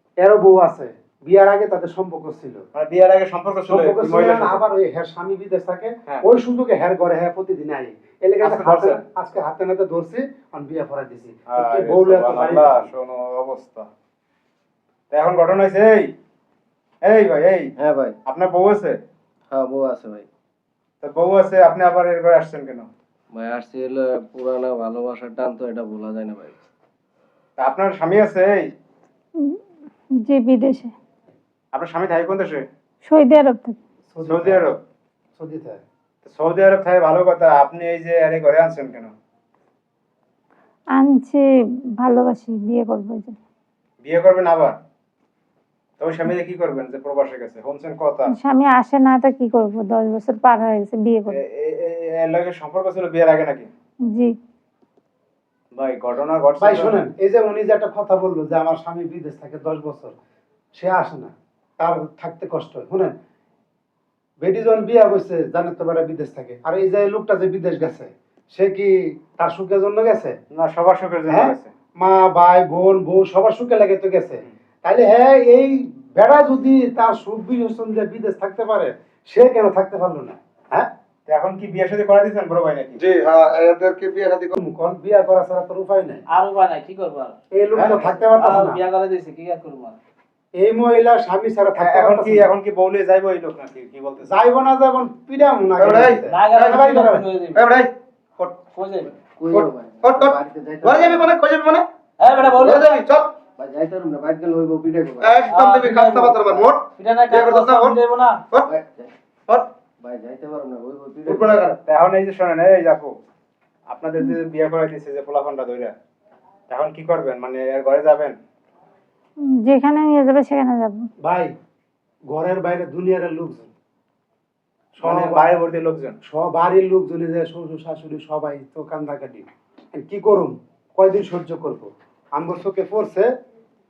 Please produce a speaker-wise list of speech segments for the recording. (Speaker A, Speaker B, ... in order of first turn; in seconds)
Speaker A: 0.2-2.7, 3.7-12.9, 34.1-34.7, 35.4-35.8, 56.6-60.1, 60.8-63.1, 64.4-70.4, 71.3-80.9, 84.6-86.2, 87.5-88.8, 90.5-92.5, 94.2-97.3, 121.2-121.5, 122.3-123.7, 125.0-125.5, 126.2-133.3
Speaker B: 2.7-4.6, 8.4-9.0, 11.5-13.9, 15.1-16.1, 17.0-17.7, 18.3-19.0, 21.0-22.9, 27.6-28.7, 31.7-32.7, 34.3-34.8, 36.2-39.1, 44.0-44.8, 46.0-48.3, 51.3-53.7, 55.7-57.0, 70.5-71.7, 81.3-83.0, 87.7-88.1, 91.8-94.3, 111.8-113.1, 113.9-115.9, 116.7-118.4, 125.0-126.2
Speaker C: 17.8-18.1, 19.5-20.3, 23.3-26.7, 99.0-101.3, 102.3-102.7, 103.6-105.4, 106.4-106.7, 108.6-109.1, 110.0-111.7
Speaker D: 30.2-30.9, 33.0-33.8, 40.9-41.5, 42.0-43.4, 48.3-51.4, 54.1-54.3, 119.4-121.1
Speaker E: 83.0-84.6, 95.8-96.8, 97.5-98.5, 99.5-101.8, 102.6-103.3, 105.2-108.0, 111.2-111.8
Speaker F: 86.3-90.0, 96.3-97.7, 98.7-99.1, 102.2-102.9, 105.5-108.4